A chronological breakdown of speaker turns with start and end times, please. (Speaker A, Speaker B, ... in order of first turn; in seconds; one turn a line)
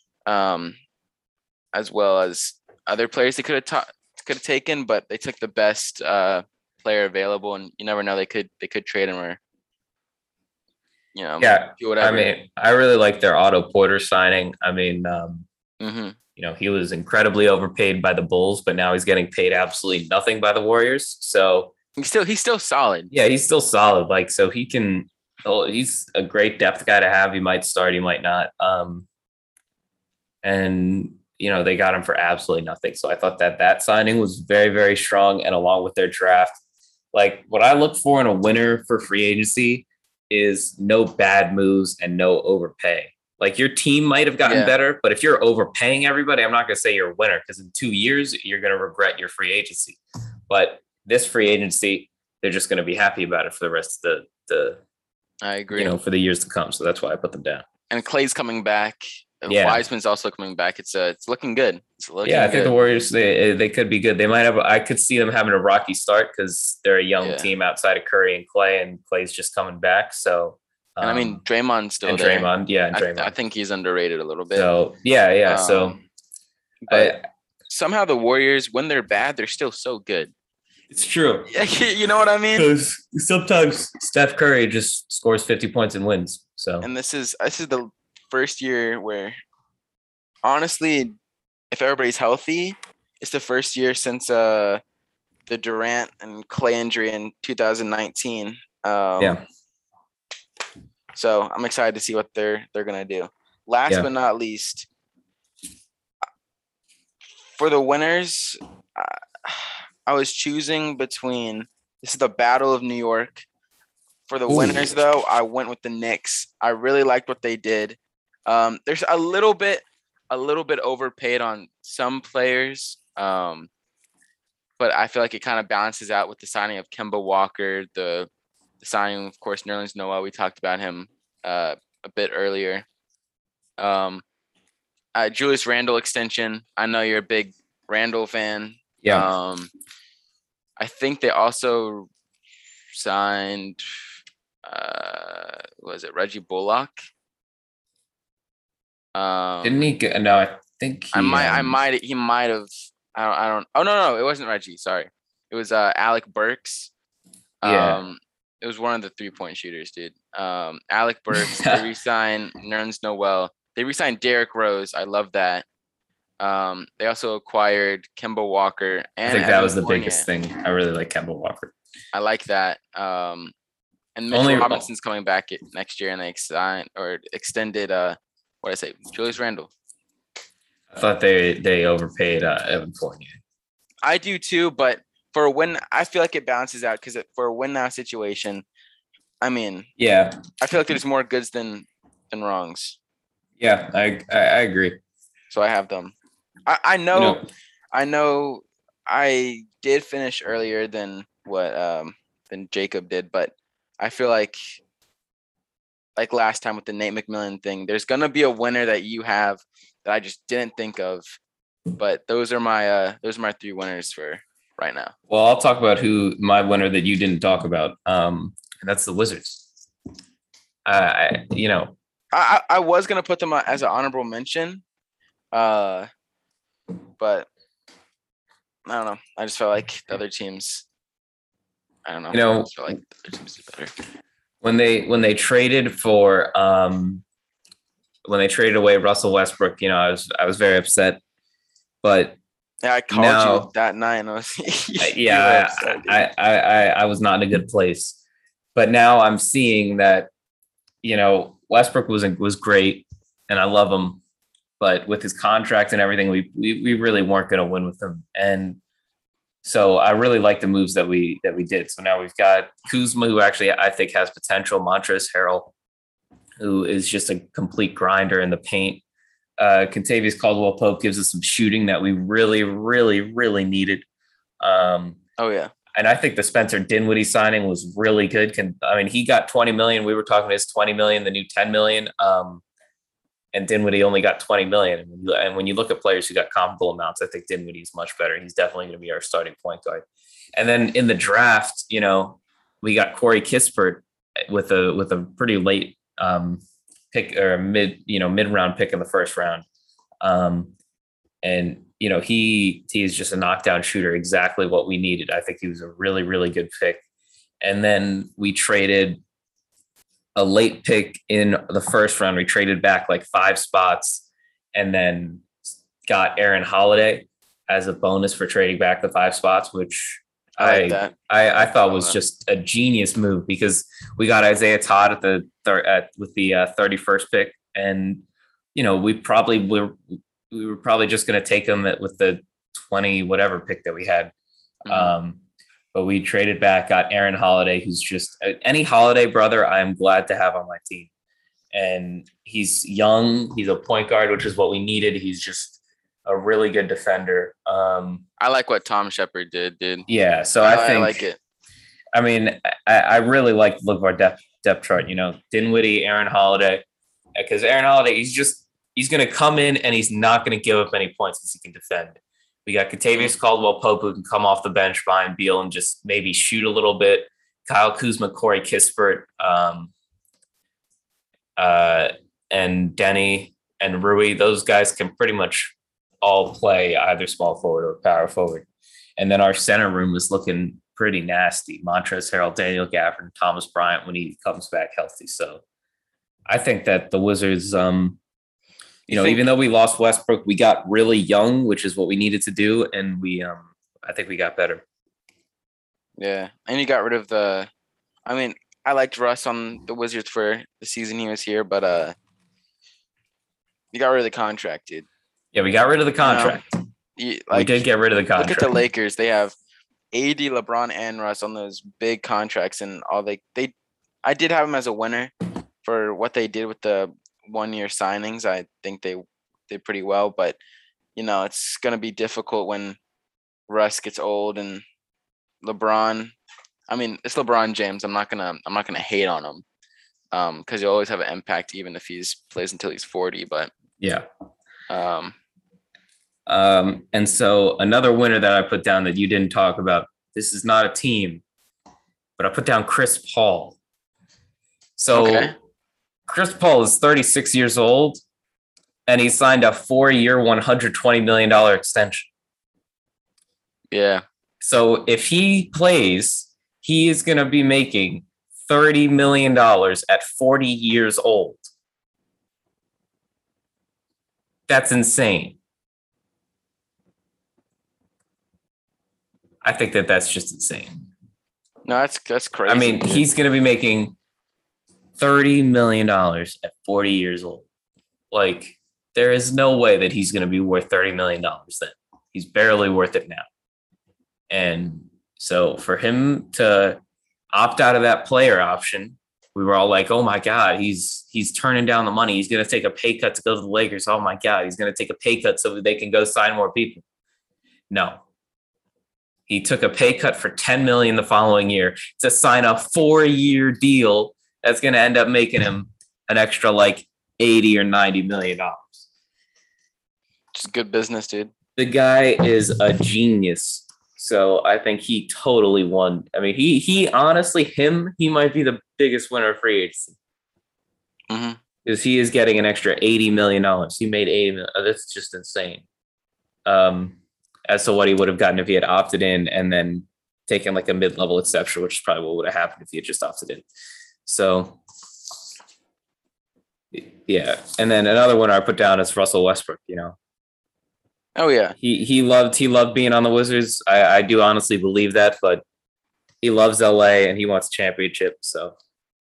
Speaker A: 0.3-0.8
Speaker A: 1.7-9.4
Speaker A: 11.2-12.3
Speaker B: 11.4-15.5
Speaker A: 15.8-16.2
Speaker B: 16.4-21.7
Speaker A: 22.0-23.1
Speaker B: 23.1-29.1
Speaker B: 30.4-36.6
Speaker B: 37.1-54.8
Speaker A: 44.4-44.7
Speaker A: 55.4-56.0
Speaker B: 55.7-57.6
Speaker A: 57.9-62.7
Speaker B: 59.5-59.8
Speaker B: 62.2-71.4
Speaker A: 67.2-67.5
Speaker A: 71.0-74.7
Speaker B: 72.0-73.3
Speaker B: 74.5-76.0
Speaker A: 75.5-76.0
Speaker A: 76.9-77.2
Speaker B: 76.9-77.2
Speaker A: 77.7-80.3
Speaker B: 80.9-81.5
Speaker A: 81.5-82.7
Speaker B: 82.6-86.9
Speaker A: 86.8-89.4
Speaker A: 90.4-91.2
Speaker A: 91.7-94.8
Speaker A: 95.5-99.4
Speaker A: 101.2-104.9
Speaker A: 107.6-113.5
Speaker A: 114.3-123.7
Speaker B: 114.5-114.9
Speaker A: 124.8-128.3
Speaker A: 128.8-132.9
Speaker A: 133.8-134.2
Speaker A: 135.2-139.7
Speaker B: 139.0-139.3
Speaker A: 140.8-142.1
Speaker A: 142.9-143.8
Speaker A: 144.7-146.9
Speaker A: 149.2-149.8
Speaker B: 149.6-151.8
Speaker A: 151.1-156.9
Speaker A: 157.6-165.7
Speaker B: 157.6-158.0
Speaker B: 161.3-161.8
Speaker A: 166.4-170.3
Speaker B: 169.3-171.7
Speaker A: 172.1-173.5
Speaker A: 174.2-179.7
Speaker B: 174.3-174.8
Speaker B: 180.9-183.4
Speaker A: 184.0-188.6
Speaker A: 189.4-189.9
Speaker B: 190.0-190.4
Speaker A: 190.6-193.0
Speaker B: 193.6-195.0
Speaker A: 195.5-196.2
Speaker A: 196.7-204.6
Speaker B: 197.1-197.5
Speaker A: 206.2-211.3
Speaker A: 212.0-215.1
Speaker B: 215.3-219.7
Speaker B: 220.9-221.9
Speaker A: 222.3-224.8
Speaker A: 225.5-226.1
Speaker A: 227.2-227.5
Speaker A: 228.9-230.8
Speaker A: 232.1-233.9
Speaker B: 232.3-232.7
Speaker B: 234.6-237.2
Speaker B: 238.3-241.2
Speaker B: 242.0-242.4
Speaker A: 242.8-246.2
Speaker B: 243.1-243.7
Speaker B: 245.0-248.2
Speaker B: 248.8-250.3
Speaker B: 251.0-254.2
Speaker B: 254.8-258.8
Speaker B: 259.6-265.7
Speaker B: 266.6-269.0
Speaker B: 269.6-274.1
Speaker B: 274.6-275.2
Speaker A: 275.4-275.7
Speaker B: 275.9-282.6
Speaker B: 283.5-290.1
Speaker B: 290.6-299.6
Speaker B: 300.2-300.7
Speaker B: 301.4-307.0
Speaker B: 307.6-309.2
Speaker B: 310.4-315.5
Speaker B: 316.1-328.2
Speaker A: 320.6-322.2
Speaker B: 328.8-334.3
Speaker A: 334.9-335.2
Speaker B: 334.9-335.4
Speaker B: 335.9-341.1
Speaker B: 341.7-348.2
Speaker A: 348.4-350.1
Speaker B: 350.1-351.2
Speaker A: 350.6-351.4
Speaker B: 352.1-356.8
Speaker B: 357.4-369.9
Speaker B: 371.6-378.7
Speaker B: 379.2-385.6
Speaker B: 386.5-388.2
Speaker A: 389.1-389.4
Speaker B: 389.1-394.8
Speaker A: 396.2-397.7
Speaker A: 398.3-402.1
Speaker A: 403.9-405.1
Speaker B: 405.5-406.6
Speaker A: 406.2-406.6
Speaker A: 407.2-407.9
Speaker B: 407.5-408.7
Speaker A: 408.4-409.5
Speaker A: 410.1-415.3
Speaker A: 415.8-420.6
Speaker A: 421.2-423.0
Speaker A: 423.7-424.8
Speaker A: 425.6-426.4
Speaker A: 426.9-429.6
Speaker A: 430.3-433.7
Speaker B: 434.0-434.2
Speaker A: 434.9-435.4
Speaker B: 436.5-441.4
Speaker B: 442.4-443.8
Speaker B: 445.0-445.5
Speaker A: 445.1-445.6
Speaker B: 446.3-448.2
Speaker B: 449.1-452.3
Speaker A: 453.9-454.2
Speaker B: 454.6-461.7
Speaker B: 464.7-465.6
Speaker B: 469.6-471.1
Speaker A: 471.9-473.3
Speaker B: 472.7-474.1
Speaker B: 475.2-477.7
Speaker B: 478.3-483.5
Speaker B: 484.5-487.0
Speaker B: 487.5-497.0
Speaker B: 497.9-498.2
Speaker B: 499.5-509.1
Speaker A: 510.6-511.5
Speaker B: 511.8-520.2
Speaker A: 521.3-521.6
Speaker B: 521.9-525.9
Speaker B: 526.7-533.7
Speaker B: 534.3-534.8
Speaker B: 536.9-540.2
Speaker A: 541.4-541.8
Speaker B: 541.8-545.6
Speaker B: 546.4-548.8